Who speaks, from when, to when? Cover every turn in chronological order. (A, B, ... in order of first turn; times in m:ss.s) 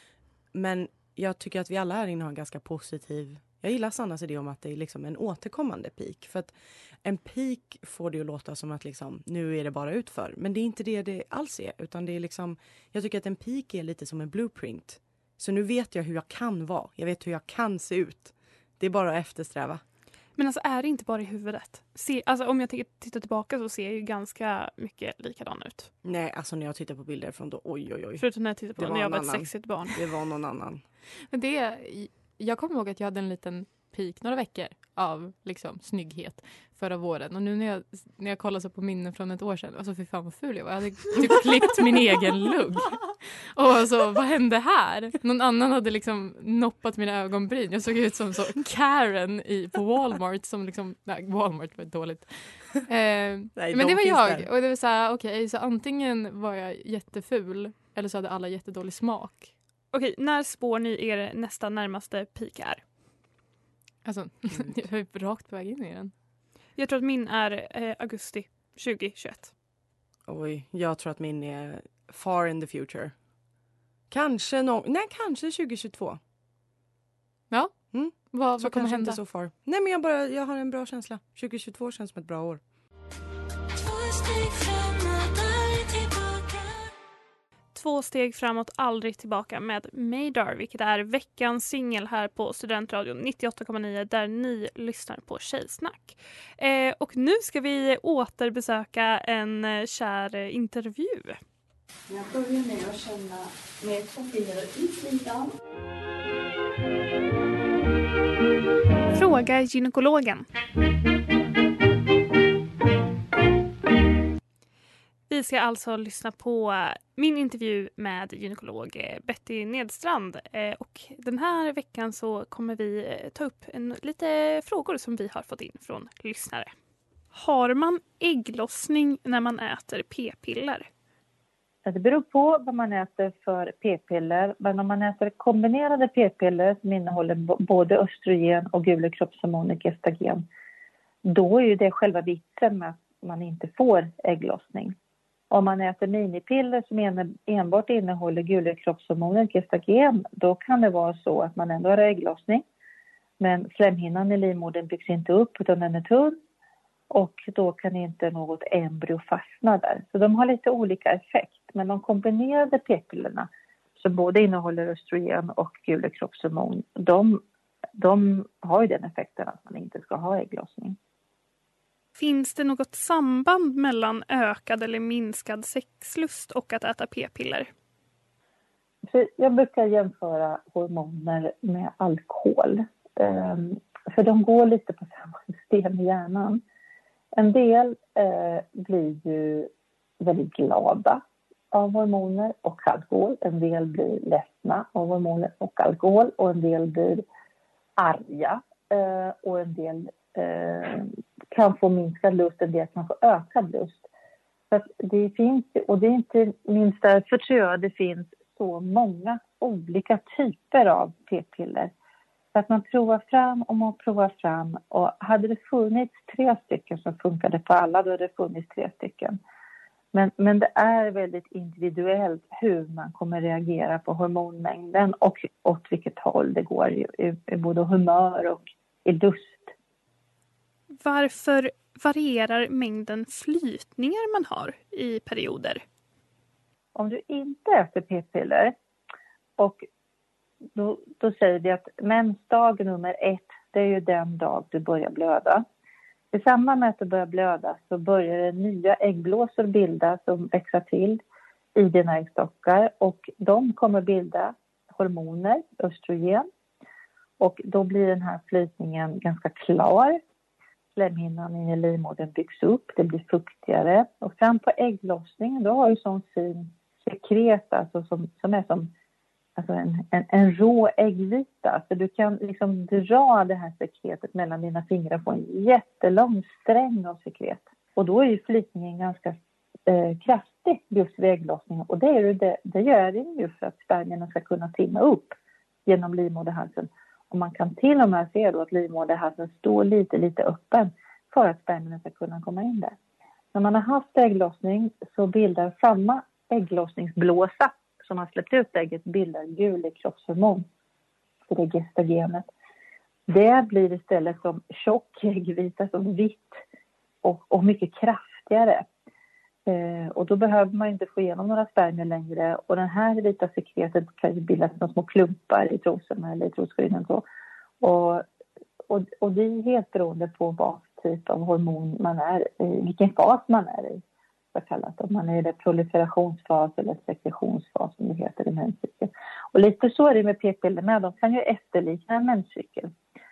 0:00.5-0:19.8 A
0:20.4-0:25.9 B
0:26.0-0:30.8 A
0:28.2-0:30.1 B
0:31.3-0:59.5 C
0:53.5-0:54.5 A
0:59.9-1:02.8 B
1:04.0-1:06.1 C
1:06.8-1:09.5 B
1:10.3-1:13.1 A
1:14.1-1:16.2 A
1:17.5-1:19.2 C
1:17.9-1:22.6 A
1:23.8-1:26.6 B
1:27.7-1:41.4 B
1:42.1-1:45.4 D
1:49.1-1:50.4 B
1:55.3-2:06.7 B
2:07.3-2:10.9 B
2:11.8-2:20.4 E
2:21.3-2:24.9 E
2:25.5-2:32.6 E
2:33.4-2:36.4 E
2:37.1-2:47.4 E
2:48.0-2:51.0 E
2:52.2-2:57.7 B
2:59.1-3:06.6 E
3:07.4-3:17.2 E
3:18.0-3:24.0 E
3:24.7-3:31.9 E
3:32.5-3:39.4 E
3:40.1-3:49.7 E
3:51.0-3:55.8 B
3:56.9-3:58.7 E
3:59.6-3:59.8 E
4:00.7-4:05.6 E
4:06.3-4:11.2 E
4:11.8-4:16.5 E
4:17.4-4:20.2 E
4:21.0-4:28.9 E
4:29.6-4:45.3 E
4:45.9-4:53.0 E
4:53.5-5:00.6 E
5:01.5-5:02.4 E
5:03.3-5:06.6 E
5:07.2-5:08.9 E
5:09.7-5:17.2 E
5:17.8-5:18.2 E
5:18.9-5:24.0 E
5:24.5-5:32.9 E